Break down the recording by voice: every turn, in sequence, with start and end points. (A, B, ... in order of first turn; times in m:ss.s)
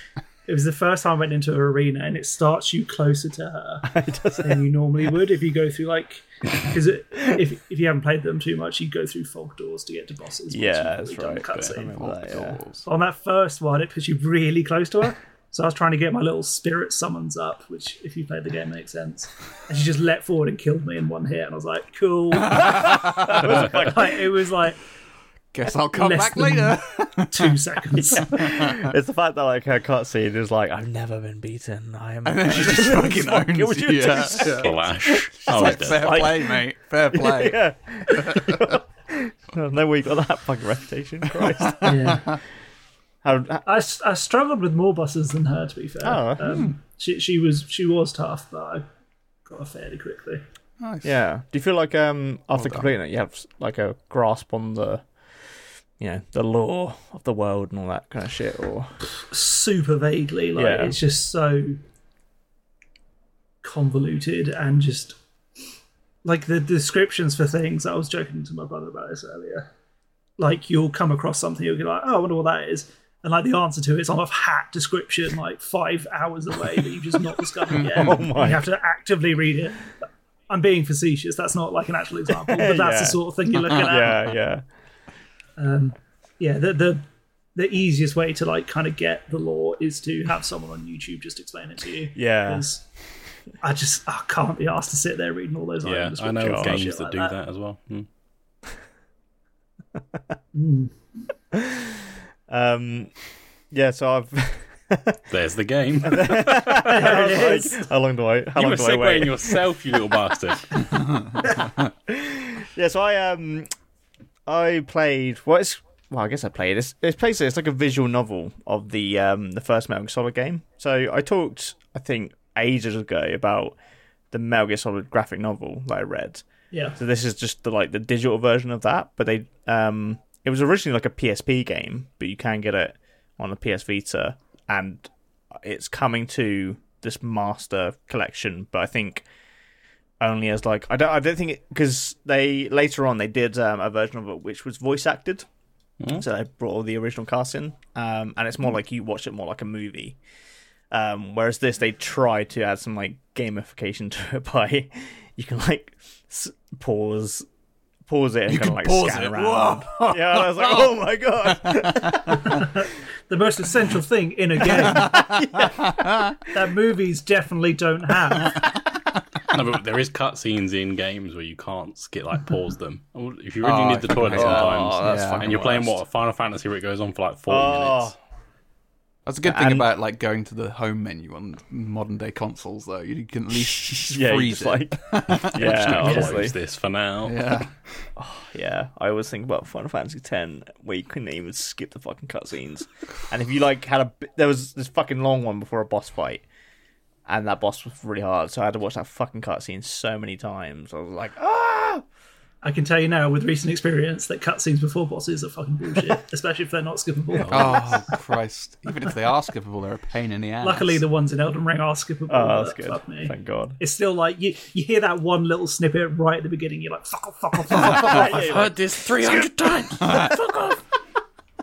0:00.5-0:11.9 A
0:03.9-0:04.7 B
0:10.5-0:12.6 B
0:11.8-0:12.9 C
0:12.9-0:24.8 A
0:22.4-0:23.5 C
0:22.6-0:24.2 B
0:25.5-0:27.6 C
0:25.9-0:26.8 A
0:27.3-0:28.6 A
0:28.0-0:36.6 B
0:28.4-0:28.9 C
0:32.2-0:38.7 C
0:34.6-0:36.4 D
0:37.1-0:42.2 B
0:41.3-0:42.4 C
0:41.8-0:42.3 A
0:43.2-0:43.6 B
0:43.7-0:48.8 A
0:46.0-0:46.6 B
0:46.4-0:46.7 C
0:49.5-0:50.4 A
0:50.8-0:51.1 C
0:51.0-0:55.1 B
0:52.6-0:52.9 C
0:56.0-0:58.9 B
0:59.2-1:01.8 A
1:00.6-1:01.0 B
1:03.6-1:05.2 A
1:06.2-1:09.7 A
1:10.4-1:20.0 A
1:17.7-1:18.2 C
1:17.9-1:18.7 B
1:20.5-1:24.2 A
1:22.4-1:24.6 B
1:25.6-1:27.0 A
1:27.6-1:32.8 A
1:32.2-1:32.6 B
1:33.6-1:37.4 A
1:35.8-1:38.1 D
1:36.4-1:36.8 B
1:40.6-1:41.0 A
1:41.5-1:43.1 B
1:43.7-1:45.2 B
1:45.3-1:47.0 D
1:46.0-1:49.6 B
1:46.8-1:47.8 A
1:48.6-1:50.7 D
1:50.9-1:51.5 C
1:52.1-1:53.7 B
1:54.5-2:03.8 B
2:04.3-2:06.4 B
2:06.7-2:07.0 A
2:07.0-2:19.2 B
2:20.2-2:25.5 B
2:26.1-2:30.2 B
2:30.9-2:37.5 B
2:38.1-2:42.6 B
2:38.5-2:42.6 C
2:42.5-2:45.3 A
2:44.8-2:46.3 C
2:45.0-2:46.1 B
2:46.5-2:48.7 A
2:49.5-2:58.1 D
2:53.6-2:55.5 C
2:54.3-2:56.0 B
2:57.5-2:58.2 B
2:59.3-3:06.4 C
2:59.4-2:59.9 B
3:03.6-3:06.5 B
3:05.6-3:07.6 D
3:07.3-3:07.7 C
3:08.2-3:16.4 B
3:17.3-3:22.0 B
3:22.6-3:28.1 A
3:27.4-3:28.0 D
3:27.5-3:31.0 C
3:30.6-3:38.6 A
3:32.3-3:33.8 B
3:37.7-3:40.4 B
3:37.8-3:38.1 C
3:38.2-3:40.8 D
3:40.0-3:40.3 C